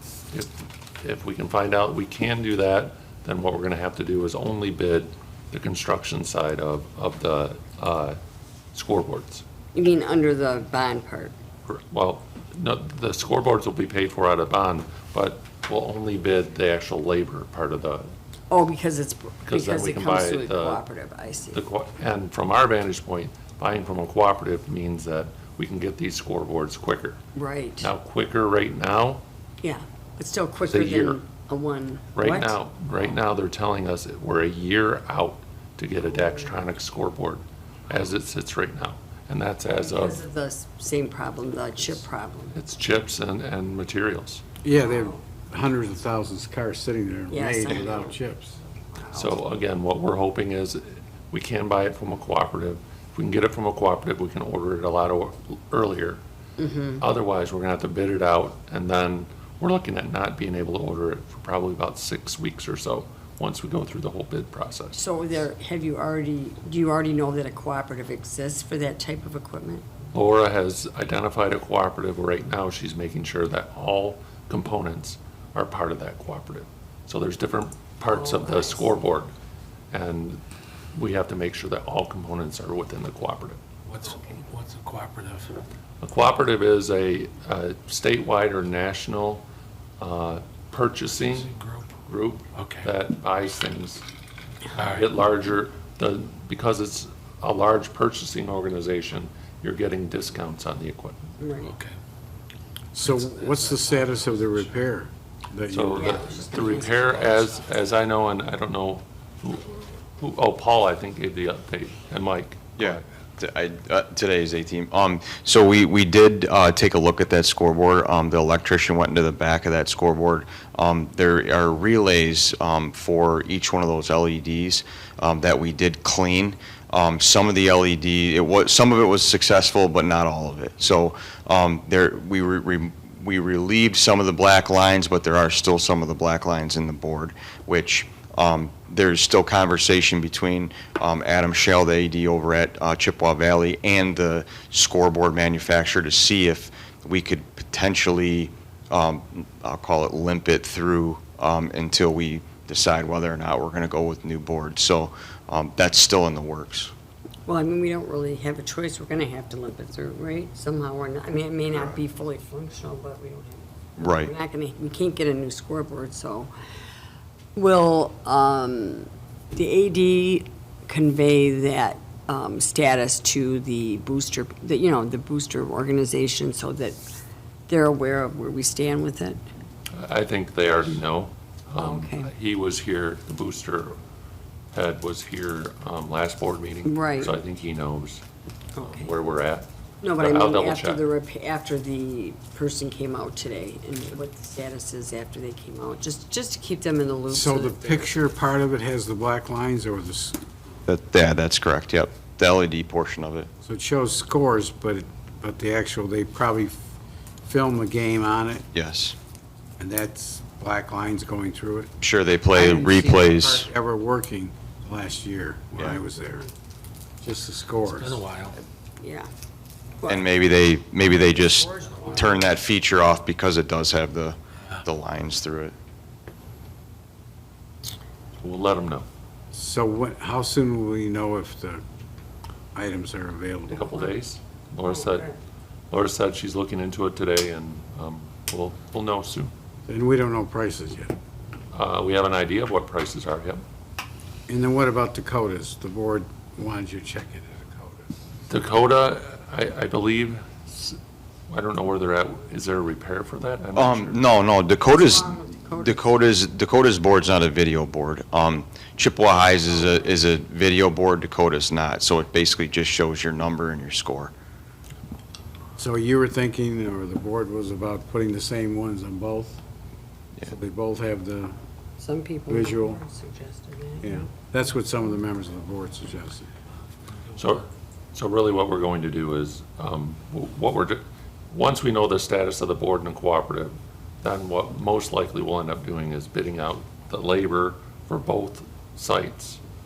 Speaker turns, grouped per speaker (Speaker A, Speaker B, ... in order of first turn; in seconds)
Speaker A: 0.3-8.2, 8.7-9.4, 11.7-18.1, 19.4-20.8, 21.5-27.2, 27.8-29.2, 30.6-31.2, 32.1-40.2, 42.5-44.4, 49.1-56.2, 57.0-65.0, 70.1-79.3, 79.9-80.4, 80.9-83.6, 86.0-89.5, 90.0-94.0, 94.8-101.3, 105.7-113.0, 179.9-184.0, 184.7-188.2, 188.8-191.0, 228.4-229.1, 233.7-235.3, 235.9-239.5, 241.7-243.6, 248.5-254.2, 277.4-289.6
Speaker B: 9.7-11.3, 18.5-21.6, 27.4-27.9, 29.6-32.6, 36.0-36.5, 39.8-42.6, 47.3-48.2, 48.9-49.3, 56.6-57.0, 64.9-69.8, 78.1-79.0, 84.0-84.4, 101.4-101.7, 106.0-107.5, 157.5-166.5, 167.6-177.0, 177.7-179.4, 181.8-182.3, 186.8-187.3, 188.8-189.1, 190.0-198.3, 219.0-219.3, 221.4-222.4, 233.8-234.1, 234.8-235.3, 254.8-256.0, 272.0-274.5
Speaker C: 44.6-48.5, 102.9-106.2, 197.3-200.4, 203.6-206.8, 207.4-208.6, 209.8-211.9, 212.5-216.5, 217.2-218.2, 229.5-231.8, 232.8-233.9, 239.9-241.2, 244.5-248.1, 265.8-269.6, 270.4-271.6, 272.5-273.0, 274.0-276.5
Speaker D: 83.9-85.5, 91.3-91.8, 92.5-92.9, 94.7-95.0, 101.6-102.0, 103.0-104.7, 217.9-218.6
Speaker E: 112.8-156.9, 161.7-162.0, 164.0-164.3, 200.9-203.5, 208.7-209.2, 212.0-213.7, 220.1-225.8, 253.8-264.3